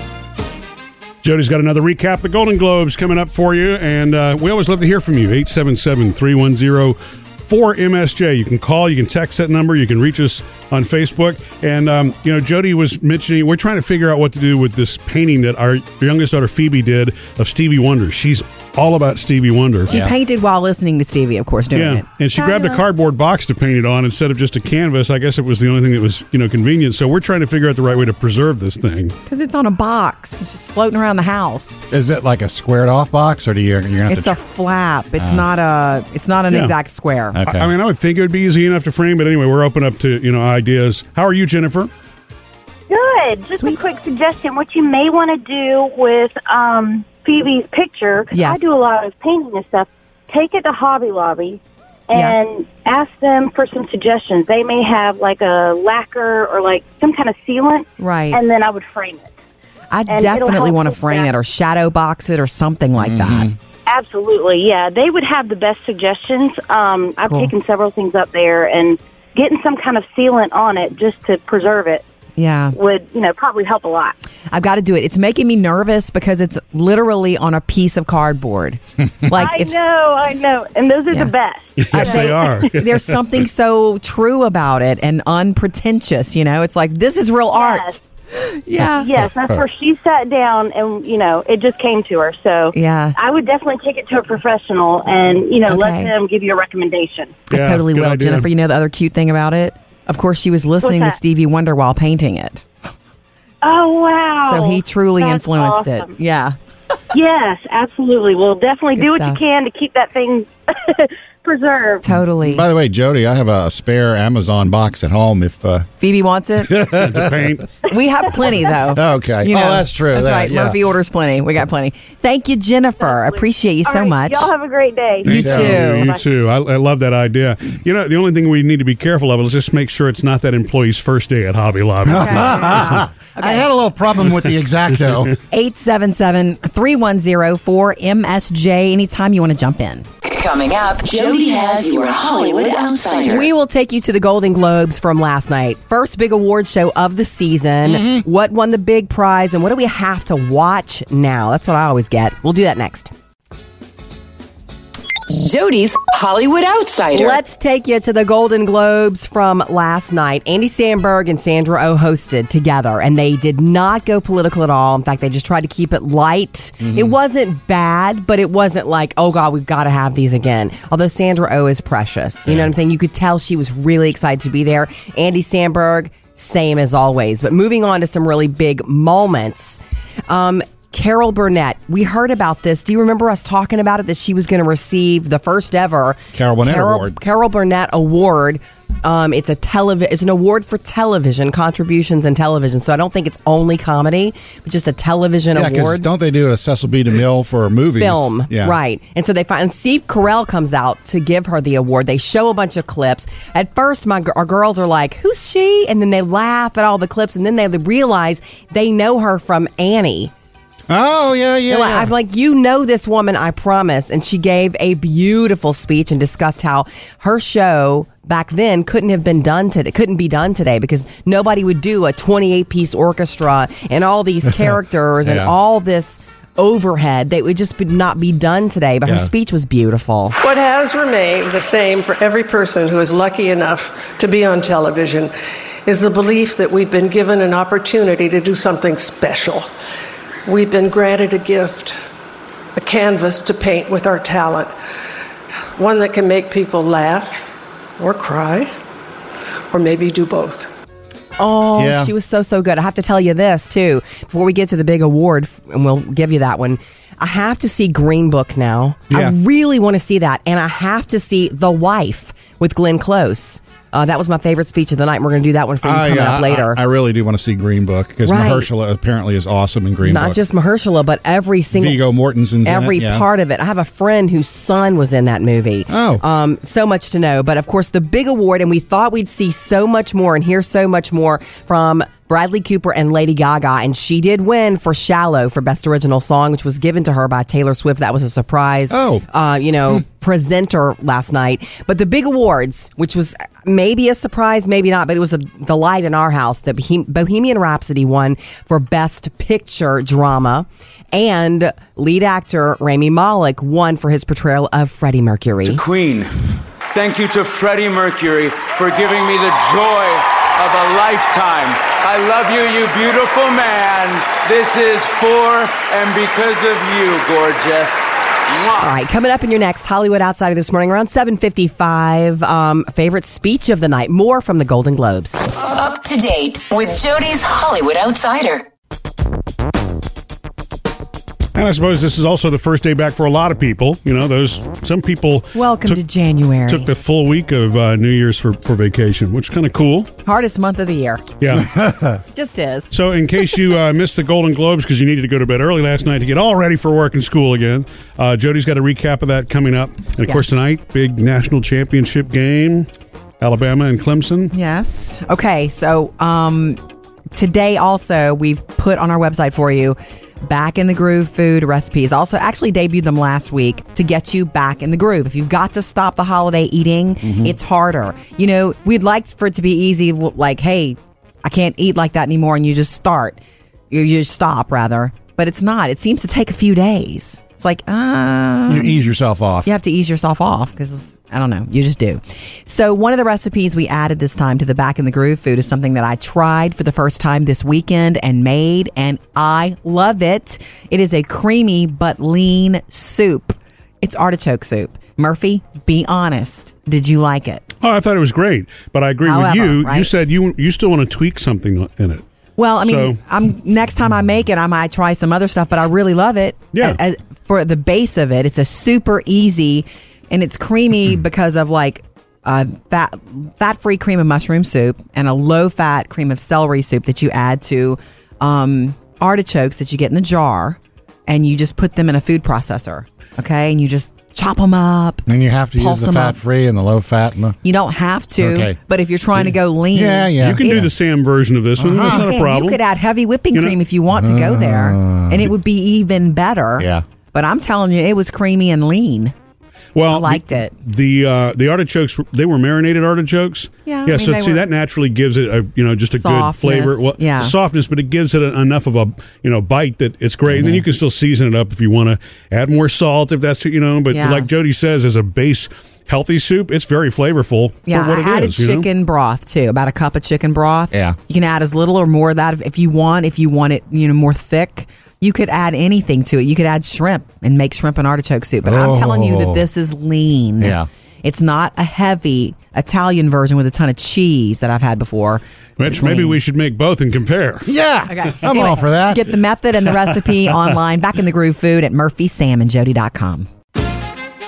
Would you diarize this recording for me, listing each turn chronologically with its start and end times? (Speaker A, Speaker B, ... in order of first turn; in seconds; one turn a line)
Speaker A: 1.2-20.0
Speaker B: 19.9-20.1
Speaker C: 19.9-22.8
Speaker A: 21.7-29.2
Speaker C: 29.3-31.8
Speaker B: 31.9-34.4
Speaker C: 34.1-37.4
Speaker B: 35.2-35.5
Speaker B: 37.3-37.7
Speaker A: 37.5-41.9
Speaker D: 42.9-59.3
Speaker C: 48.3-48.7
Speaker C: 52.1-52.4
Speaker C: 58.0-58.4
Speaker C: 59.9-63.5
Speaker D: 60.1-61.4
Speaker B: 63.0-63.5
Speaker D: 63.9-72.0
Speaker C: 67.2-67.5
Speaker C: 72.4-72.8
Speaker D: 72.7-74.2
Speaker C: 74.5-80.4
Speaker D: 79.3-82.6
Speaker C: 81.1-81.3
Speaker A: 81.8-83.2
Speaker C: 81.9-89.1
Speaker D: 87.5-88.0
Speaker D: 88.9-97.4
Speaker C: 92.7-93.2
Speaker C: 95.7-96.1
Speaker C: 97.5-102.7
Speaker A: 97.5-98.5
Speaker D: 100.8-101.2
Speaker D: 103.6-106.1
Speaker C: 104.4-106.6
Speaker D: 107.1-112.0
Speaker C: 109.0-109.4
Speaker C: 112.0-112.7
Speaker B: 112.1-115.9
Speaker C: 116.0-116.8
Speaker B: 116.7-117.4
Speaker A: 117.0-117.7
Speaker C: 117.9-124.5
Speaker B: 118.9-120.8
Speaker D: 123.0-126.2
Speaker C: 125.2-126.1
Speaker A: 125.2-132.9
Speaker B: 125.4-125.8
Speaker B: 132.1-135.3
Speaker C: 132.1-133.7
Speaker C: 135.5-140.1
Speaker E: 140.2-143.5
Speaker F: 143.3-153.1
Speaker B: 147.8-148.2
Speaker E: 155.3-157.4
Speaker F: 157.1-196.1
Speaker B: 166.8-167.2
Speaker B: 172.5-172.7
Speaker B: 186.3-187.2
Speaker B: 195.5-198.8
Speaker F: 198.0-210.3
Speaker B: 210.9-212.1
Speaker F: 211.7-230.4
Speaker B: 225.2-225.5
Speaker B: 229.1-229.3
Speaker G: 230.4-235.3
Speaker G: 235.8-239.7
Speaker G: 240.5-242.0
Speaker G: 242.8-244.7
Speaker G: 245.8-248.7
Speaker G: 249.7-250.7
Speaker F: 251.4-266.8
Speaker B: 251.8-252.1
Speaker B: 259.1-259.4
Speaker B: 265.8-270.4
Speaker F: 268.2-268.7
Speaker F: 270.0-272.0
Speaker B: 271.7-273.3
Speaker F: 272.6-305.8
Speaker B: 275.9-276.2
Speaker B: 288.9-289.2
Speaker H: 305.6-318.9
Speaker F: 318.8-325.4
Speaker E: 325.5-328.7
Speaker A: 331.6-336.0
Speaker C: 335.6-336.9
Speaker A: 336.7-340.1
Speaker C: 340.2-341.2
Speaker A: 341.4-341.7
Speaker B: 341.5-342.2
Speaker C: 342.3-342.9
Speaker A: 342.9-352.9
Speaker A: 353.4-354.5
Speaker C: 354.5-356.8
Speaker C: 357.3-373.4
Speaker B: 367.2-367.6
Speaker C: 373.9-379.0
Speaker B: 378.7-379.7
Speaker C: 379.6-397.6
Speaker A: 397.8-402.2
Speaker C: 399.2-400.1
Speaker C: 402.6-426.4
Speaker A: 402.8-403.2
Speaker A: 406.7-407.0
Speaker B: 425.3-427.6
Speaker C: 427.6-430.9
Speaker B: 428.4-428.8
Speaker B: 429.9-430.9
Speaker A: 430.4-432.8
Speaker B: 431.8-432.3
Speaker C: 432.0-439.3
Speaker B: 434.1-435.5
Speaker B: 436.8-437.0
Speaker A: 439.9-458.9
Speaker C: 440.1-440.7
Speaker C: 443.9-444.7
Speaker C: 446.1-447.5
Speaker B: 450.5-450.8
Speaker C: 454.1-454.5
Speaker C: 457.9-476.4
Speaker B: 460.9-461.2
Speaker B: 468.6-469.7
Speaker B: 470.6-470.9
Speaker A: 475.8-477.7
Speaker B: 477.7-479.4
Speaker C: 478.1-483.5